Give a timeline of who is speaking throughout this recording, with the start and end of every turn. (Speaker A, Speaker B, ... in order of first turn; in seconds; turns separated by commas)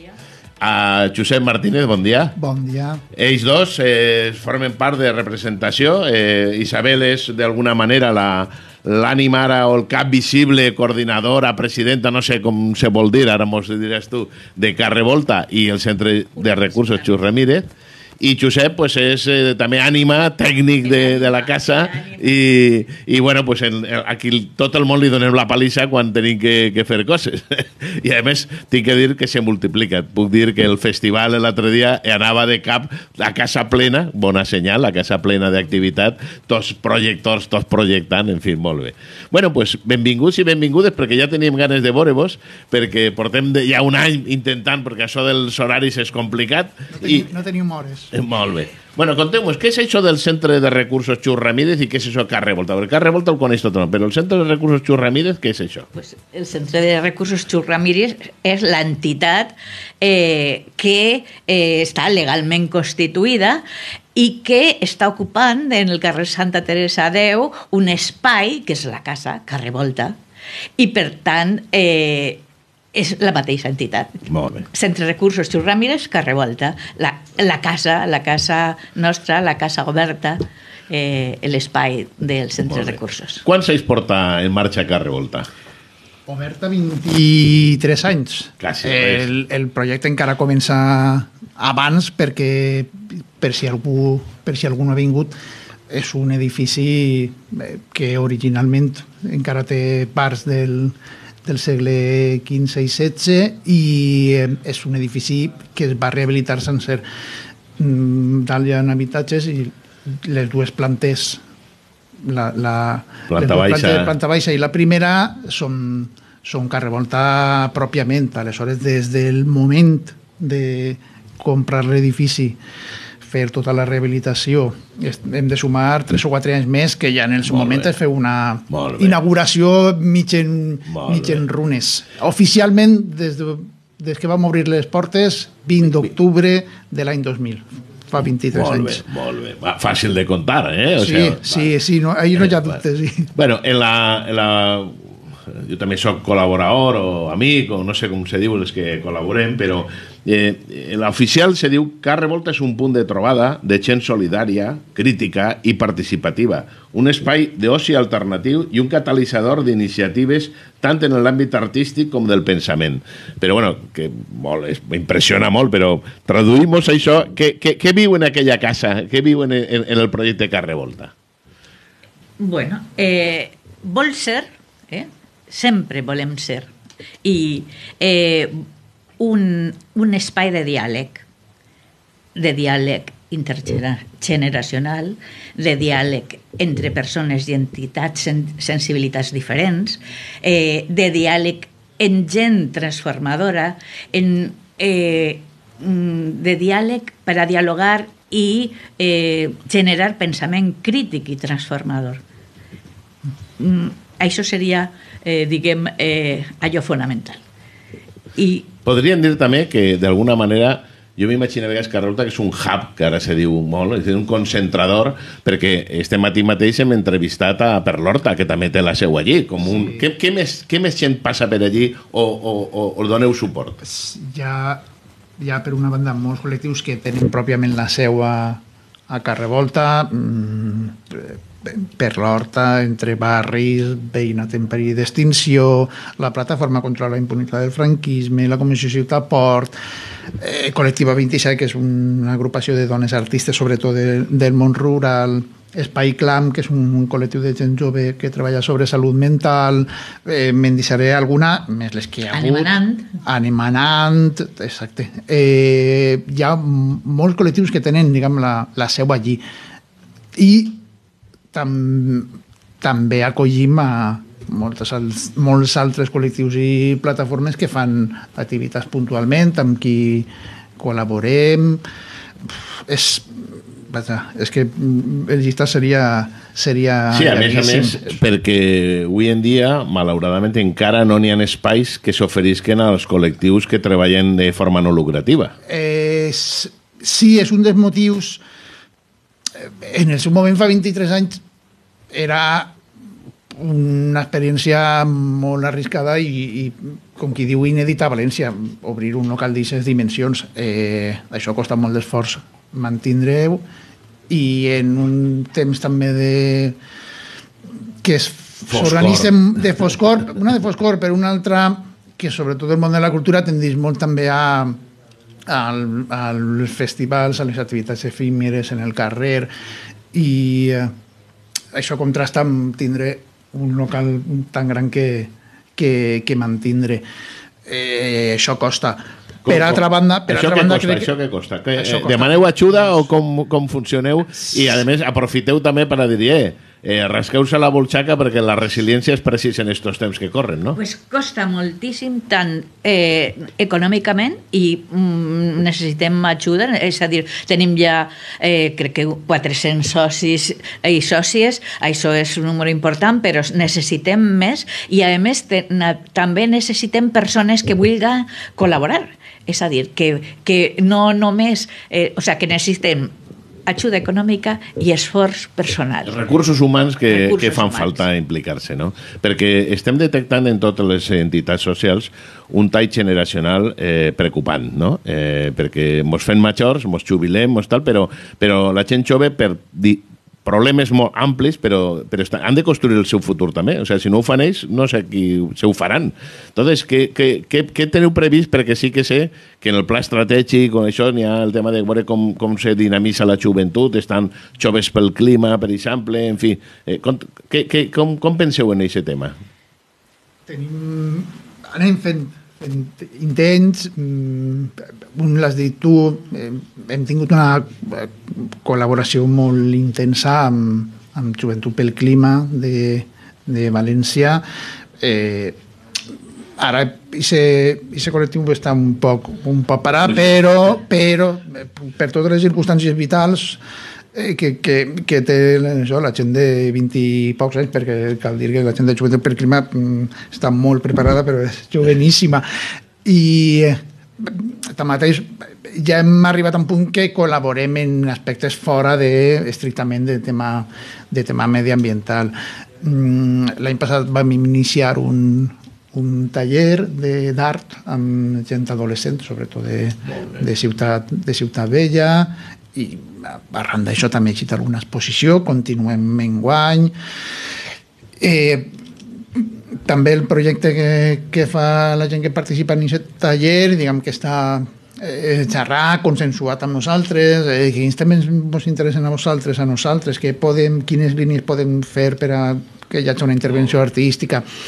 Speaker A: 0.6-2.3, Speaker B: 2.4-3.0, Speaker A: 3.1-17.7, Speaker C: 16.4-17.3, Speaker A: 18.2-47.3, Speaker C: 20.8-22.3, Speaker B: 46.9-48.1, Speaker A: 48.1-55.9, Speaker C: 55.9-63.6, Speaker C: 64.2-70.2, Speaker C: 70.8-72.4, Speaker C: 72.9-83.5, Speaker A: 74.3-74.7, Speaker A: 82.7-85.5, Speaker B: 86.3-95.3, Speaker A: 88.6-89.3, Speaker B: 95.9-101.0, Speaker B: 101.5-107.0, Speaker B: 107.8-111.4, Speaker B: 112.2-122.6, Speaker A: 113.3-114.1, Speaker B: 123.2-139.0, Speaker A: 127.5-127.9, Speaker A: 128.7-129.2, Speaker A: 130.9-131.4, Speaker A: 138.5-141.7, Speaker B: 141.0-143.3, Speaker A: 142.3-142.8, Speaker A: 143.3-171.1, Speaker C: 172.4-176.7, Speaker C: 177.2-178.6, Speaker C: 179.2-181.3, Speaker C: 182.3-202.2, Speaker C: 203.6-207.4, Speaker C: 208.3-208.7, Speaker A: 208.9-223.8, Speaker B: 219.6-220.1, Speaker B: 223.8-224.8, Speaker B: 225.4-239.7, Speaker B: 240.4-259.4, Speaker C: 252.3-253.2, Speaker B: 260.4-260.8, Speaker B: 261.5-271.8, Speaker B: 272.5-278.2, Speaker A: 277.1-285.6, Speaker B: 285.7-288.4, Speaker B: 289.6-291.4, Speaker B: 292.1-292.8, Speaker B: 293.5-303.6, Speaker B: 304.3-306.8, Speaker B: 308.0-314.8, Speaker A: 308.7-309.3, Speaker B: 315.5-319.5, Speaker B: 320.1-320.9, Speaker B: 321.7-327.0, Speaker B: 327.7-331.1, Speaker A: 329.5-340.8, Speaker B: 331.8-333.1, Speaker C: 340.8-363.1, Speaker C: 363.7-366.2, Speaker A: 366.1-399.4, Speaker C: 367.1-368.1, Speaker B: 400.5-414.4, Speaker B: 415.0-415.6, Speaker B: 416.6-423.6, Speaker B: 424.1-432.5, Speaker B: 433.0-456.9, Speaker B: 458.2-458.7, Speaker B: 459.4-474.4